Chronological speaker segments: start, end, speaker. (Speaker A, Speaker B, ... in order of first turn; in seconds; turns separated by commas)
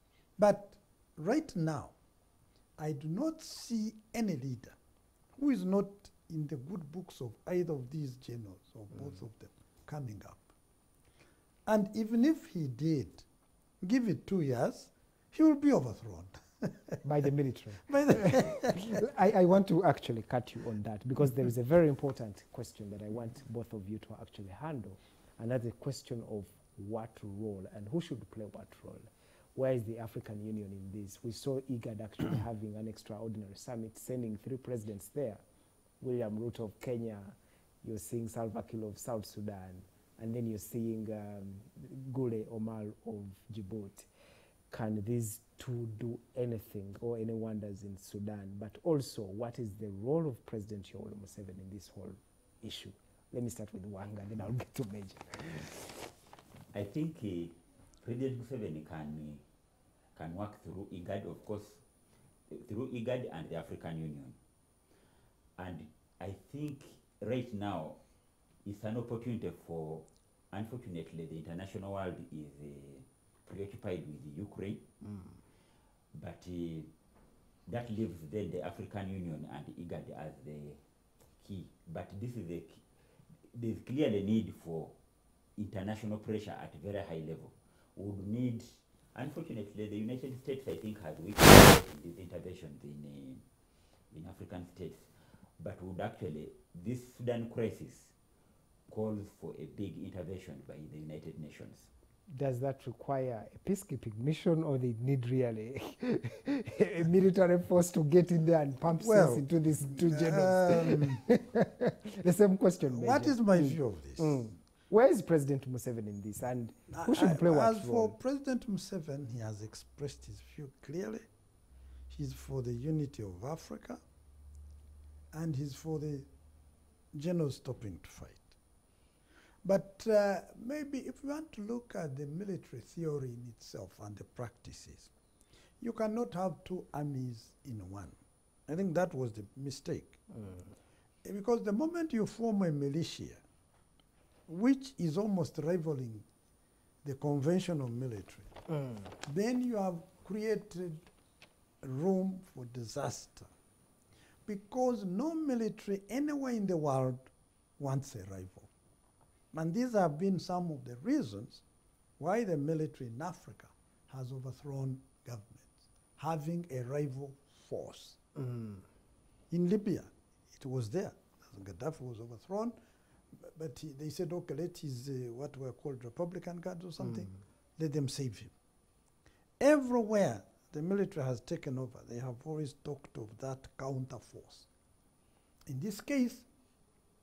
Speaker A: 0.4-1.9, Speaker A: 2.8-4.8, Speaker A: 5.3-10.5, Speaker A: 11.7-13.2, Speaker A: 13.8-17.0, Speaker B: 17.0-29.0, Speaker A: 17.9-19.0, Speaker B: 29.6-35.4, Speaker B: 36.0-44.1, Speaker B: 44.7-55.8, Speaker C: 56.7-59.4, Speaker C: 60.1-61.8, Speaker C: 62.5-64.4, Speaker C: 65.6-68.0, Speaker C: 68.6-74.8, Speaker C: 76.1-76.9, Speaker C: 77.7-80.8, Speaker C: 81.4-82.8, Speaker C: 83.5-84.9, Speaker C: 85.6-93.4, Speaker C: 94.1-98.1, Speaker C: 98.9-101.9, Speaker B: 102.3-118.1, Speaker A: 109.0-111.2, Speaker A: 112.8-114.4, Speaker A: 116.9-121.2, Speaker A: 122.1-124.0, Speaker A: 125.3-126.3, Speaker A: 127.1-128.5, Speaker A: 129.6-135.1, Speaker A: 135.8-140.2, Speaker A: 141.2-143.4, Speaker A: 144.5-146.2, Speaker A: 147.0-148.5, Speaker A: 149.2-151.1, Speaker A: 151.8-153.5, Speaker A: 154.4-158.7, Speaker A: 159.5-161.6, Speaker A: 162.2-168.2, Speaker B: 168.5-168.8, Speaker A: 169.5-172.8, Speaker A: 173.3-178.5, Speaker A: 179.6-184.7, Speaker A: 185.7-186.4